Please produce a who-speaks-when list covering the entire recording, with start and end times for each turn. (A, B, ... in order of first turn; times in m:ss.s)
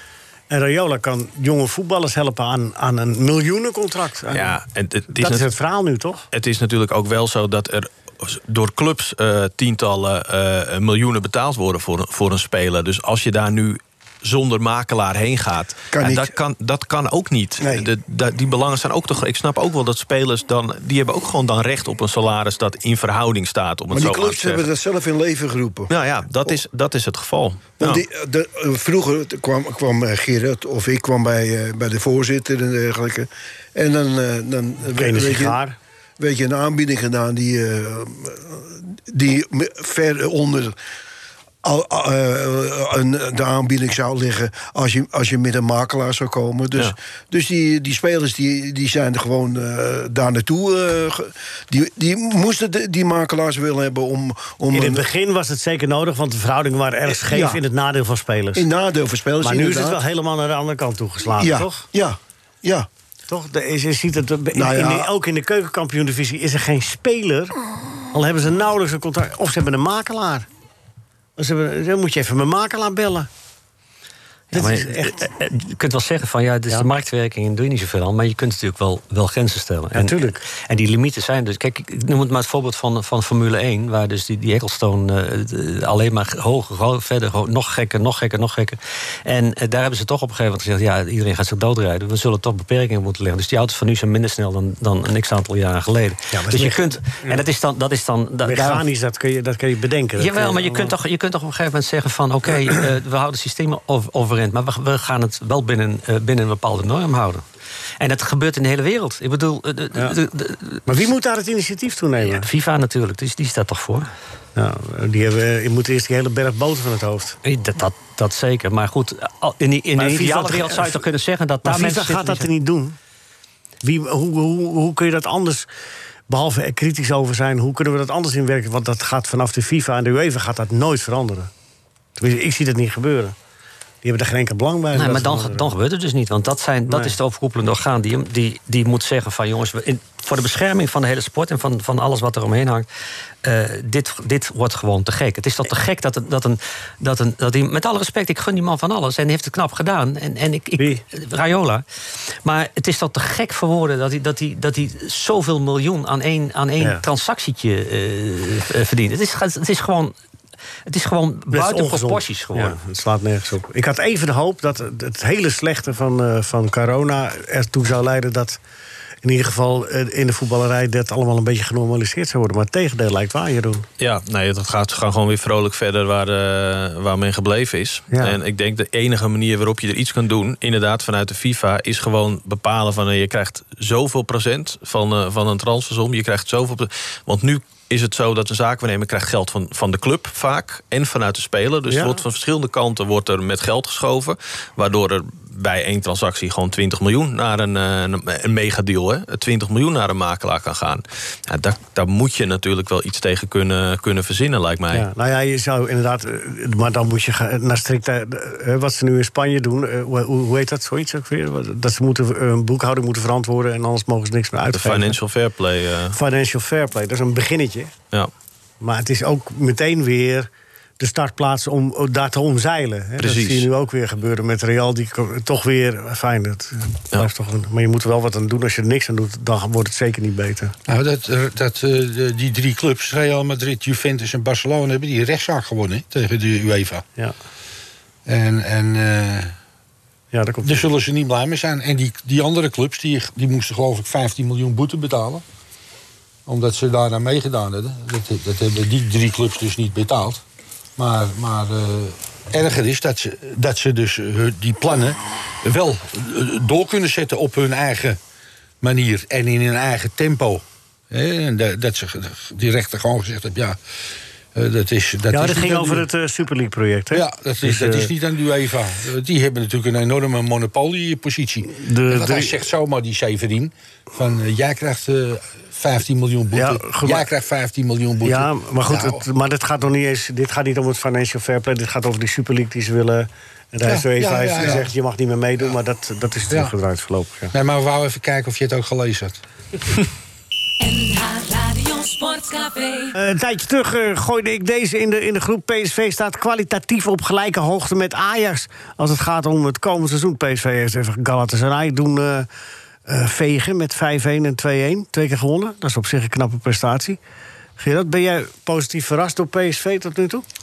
0:00.5-0:04.6 A
0:04.3-0:05.5 B
0:05.1-0:06.2 A
0:06.3-0:24.7 B
0:15.9-0:16.3 C
0:17.6-0:17.9 C
0:23.9-0:25.9 C
0:25.9-0:28.0 B
0:27.8-0:35.6 C
0:34.9-0:35.8 A
0:36.2-0:40.7 C
0:41.6-0:55.0 C
0:54.7-0:58.7 A
0:57.1-0:57.6 C
0:58.5-1:00.0 C
0:59.4-1:01.8 A
1:01.4-1:02.9 C
1:03.3-1:07.6 A
1:04.5-1:05.1 C
1:08.1-1:10.5 A
1:11.4-1:13.3 A
1:14.5-1:38.8 D
1:14.5-1:15.3 A
1:19.9-1:20.4 A
1:36.3-1:37.4 A
1:38.4-1:40.9 A
1:40.2-1:47.4 D
1:48.0-1:50.9 D
1:50.8-1:52.5 A
1:52.2-1:54.1 D
1:54.5-1:57.4 A
1:57.4-2:02.5 D
2:00.0-2:01.0 A
2:01.6-2:03.0 A
2:03.8-2:05.7 A
2:06.3-2:11.5 A
2:12.2-2:13.4 A
2:14.0-2:15.7 A
2:14.9-2:22.9 D
2:16.9-2:17.2 A
2:23.4-2:31.8 D
2:32.4-2:40.1 D
2:40.8-2:42.8 D
2:41.5-2:48.6 A
2:49.2-2:53.9 A
2:54.0-3:25.1 B
2:58.1-2:58.4 A
3:11.9-3:12.2 A
3:24.9-3:35.2 A
3:34.7-3:36.2 B
3:36.1-3:37.9 A
3:38.8-3:50.7 A
3:43.2-3:43.7 B
3:50.9-3:57.0 E
3:58.2-3:59.5 E
4:00.3-4:00.9 A
4:00.6-4:05.4 E
4:06.4-4:10.4 E
4:11.0-4:18.2 E
4:18.8-4:23.8 E
4:24.5-4:26.0 E
4:25.3-4:28.1 A
4:27.1-4:39.2 E
4:31.7-4:32.6 A
4:36.5-4:37.3 A
4:38.2-4:47.5 A
4:43.8-4:44.8 E
4:47.5-4:49.4 E
4:50.8-4:53.1 F
4:53.1-5:02.5 A
5:03.0-5:07.2 A
5:07.8-5:10.4 A